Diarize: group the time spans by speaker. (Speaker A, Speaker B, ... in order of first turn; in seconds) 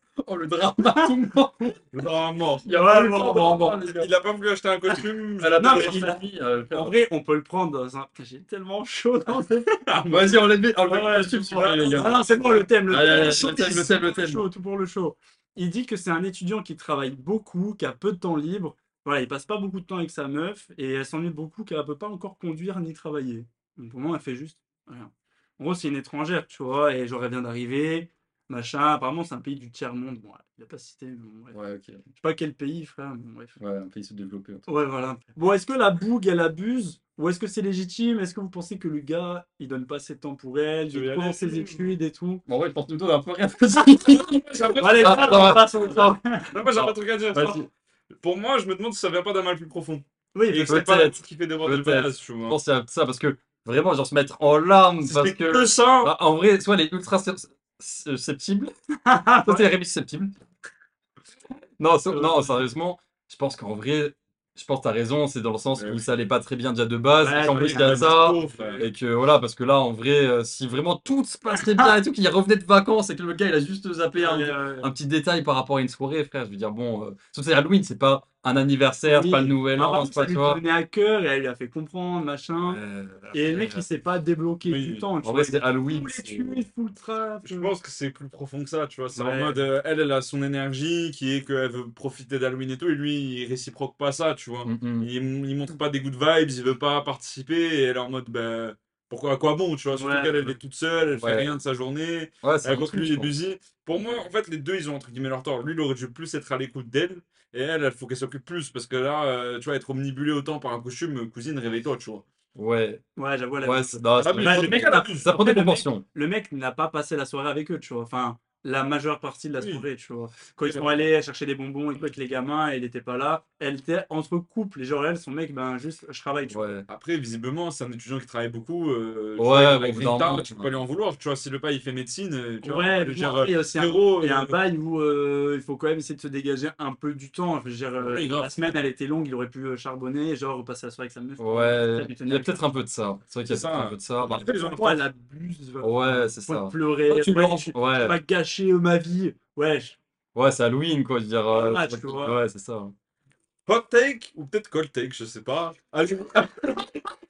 Speaker A: 0.2-1.8, 2.7-4.1, 5.4-6.9, 10.1-12.2, 12.9-14.4, 31.5-32.0, 33.6-34.7, 42.5-46.2, 46.7-47.7, 50.7-58.7, 59.4-60.3, 61.8-80.6, 82.7-83.8, 85.2-86.6, 94.7-95.1, 101.2-101.5, 102.4-103.3, 112.6-113.0, 113.6-116.0, 126.5-126.9, 129.4-130.7, 141.4-144.5, 145.8-148.2, 150.3-152.9
Speaker B: 0.8-1.3, 2.7-3.6, 5.6-6.2, 6.7-9.8, 10.9-31.6, 32.2-33.6, 34.7-42.4, 44.8-46.5, 50.4-50.9, 59.1-59.7, 62.1-62.6, 67.2-68.8, 71.5-71.9, 74.2-74.9, 79.1-82.8, 83.3-87.7, 89.1-89.6, 99.9-100.5, 113.2-126.7, 132.6-142.6, 144.5-150.0, 151.5-152.4
Speaker C: 1.9-6.0, 9.9-10.3, 11.6-12.2, 40.9-41.9, 44.1-45.6, 46.5-47.6, 48.2-52.6, 55.0-56.1, 65.8-66.0, 67.5-68.9, 84.7-85.1, 87.5-112.3, 114.2-115.3, 119.6-119.8, 126.9-134.6, 138.0-138.6, 143.5-145.0, 153.7-156.9